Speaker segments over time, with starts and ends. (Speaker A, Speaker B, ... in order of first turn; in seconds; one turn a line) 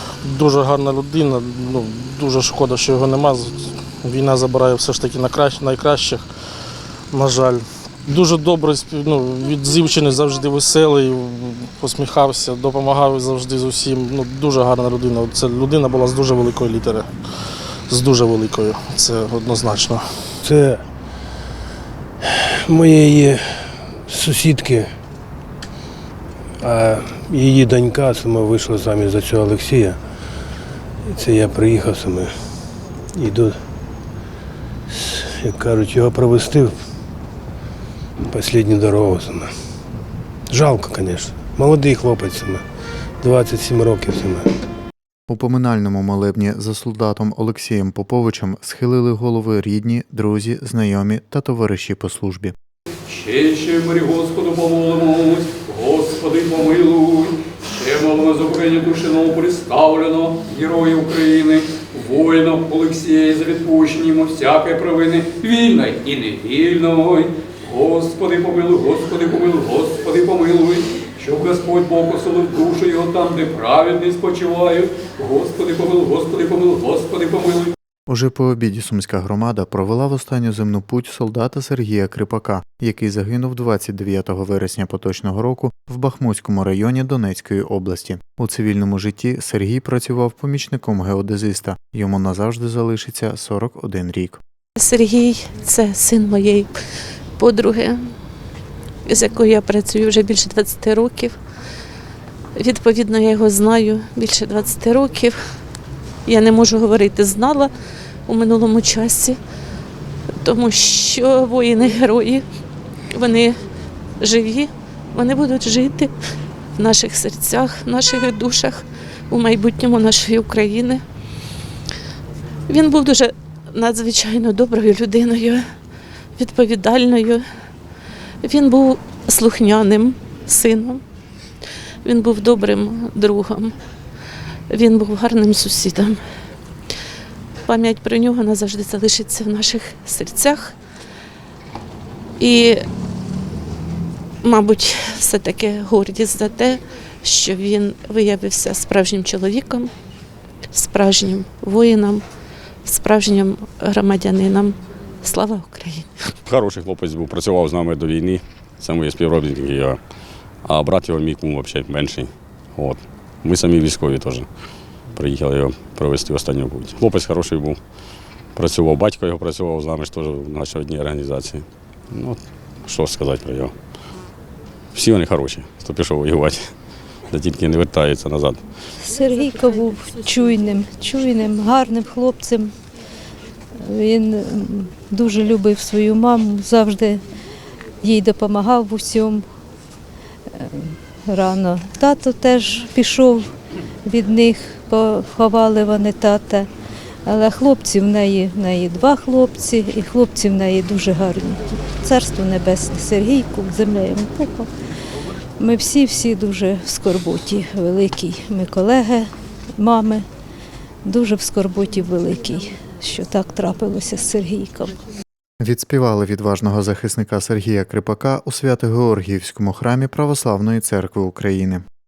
Speaker A: 0.2-6.2
Speaker A: 7.1-17.1
Speaker A: 17.9-20.5
Speaker B: 22.7-23.3
Speaker B: 24.1-24.8
Speaker B: 26.7-29.9
Speaker B: 31.2-32.2
Speaker B: 33.2-33.5
Speaker B: 35.4-36.6
Speaker B: 38.3-39.4
Speaker B: 40.5-42.5
Speaker B: 43.3-44.3
Speaker C: 45.3-52.6
Speaker D: 53.1-77.7
Speaker C: 78.1-94.4
Speaker E: 94.8-96.7
Speaker E: 97.4-98.0
Speaker E: 99.1-101.3
Speaker E: 102.6-105.4
Speaker E: 106.3-107.7
Speaker E: 108.3-109.4
Speaker E: 110.4-112.5
Speaker E: 113.2-113.5
Speaker E: 114.2-116.1
Speaker E: 116.8-121.0
Speaker E: 122.7-125.6
Speaker E: 126.4-127.4
Speaker E: 128.4-131.0
Speaker E: 132.1-133.7
Speaker E: 134.7-136.2
Speaker E: 137.7-140.7
Speaker E: 142.4-142.8
Speaker E: 144.4-149.9
Speaker E: 150.7-152.2
Speaker E: 152.8-156.1
Speaker F: 156.5-160.0
Speaker F: 160.7-164.5
Speaker F: 165.2-167.8
Speaker F: 168.6-173.7
Speaker F: 174.9-176.6
Speaker F: 177.3-178.6
Speaker G: 179.0-182.7
Speaker G: 183.9-187.2
Speaker G: 188.0-189.4
Speaker G: 190.6-193.5
Speaker G: 194.1-196.7
Speaker G: 197.3-204.7
Speaker G: 205.6-210.2
Speaker G: 211.1-214.9
Speaker C: 215.6-221.8